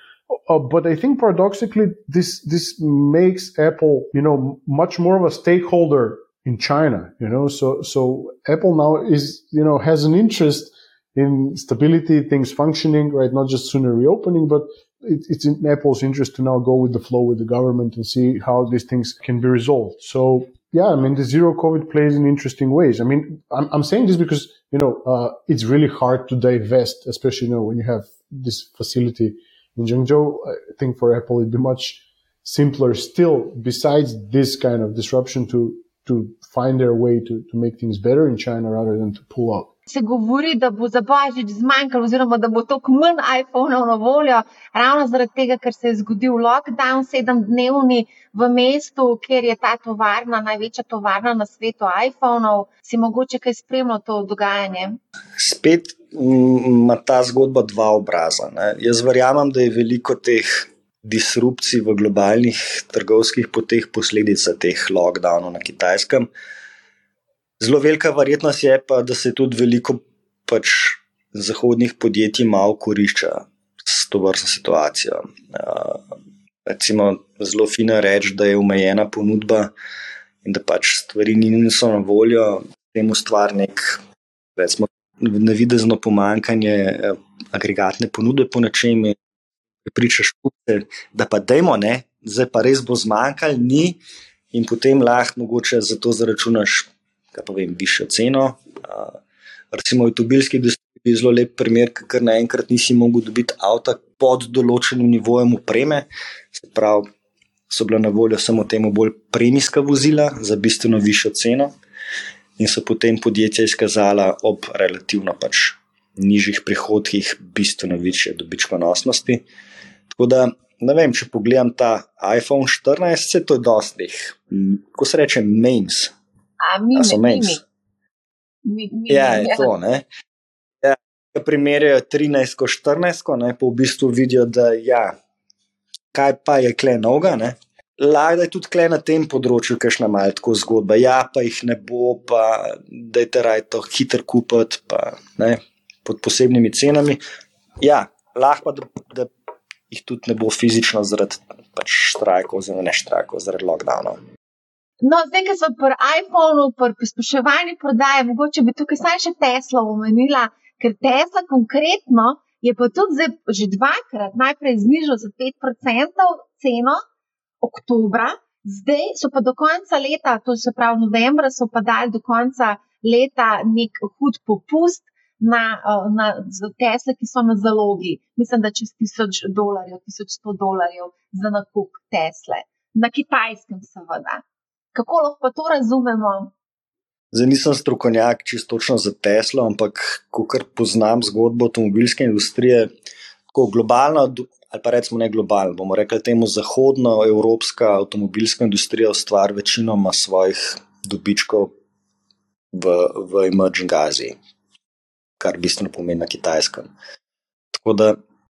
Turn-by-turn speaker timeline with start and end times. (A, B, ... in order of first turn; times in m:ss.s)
0:00.3-0:39.7 A
0:39.9-0:55.0 B
0:55.4-1:06.3 C
1:07.6-1:16.0 C
1:16.7-1:19.7 C
1:20.4-1:24.0 C
1:24.6-1:29.2 C
1:29.9-1:34.0 C
1:34.5-1:39.2 C
1:39.7-1:47.1 C
1:47.7-1:51.7 C
1:52.6-1:59.4 C
2:00.1-2:06.1 C
2:06.6-2:07.6 B
2:07.0-2:07.6 C
2:08.6-2:09.7 B
2:09.1-2:10.1 C
2:10.8-2:15.2 C
2:16.1-2:27.2 C
2:27.8-2:29.3 C
2:29.9-2:34.2 C
2:35.0-2:47.0 B
2:47.6-3:04.4 B
3:05.0-3:06.5 B
3:07.3-3:12.9 C
3:13.5-3:21.7 C
3:22.7-3:24.4 C
3:25.4-3:26.9 C
3:27.7-3:28.2 C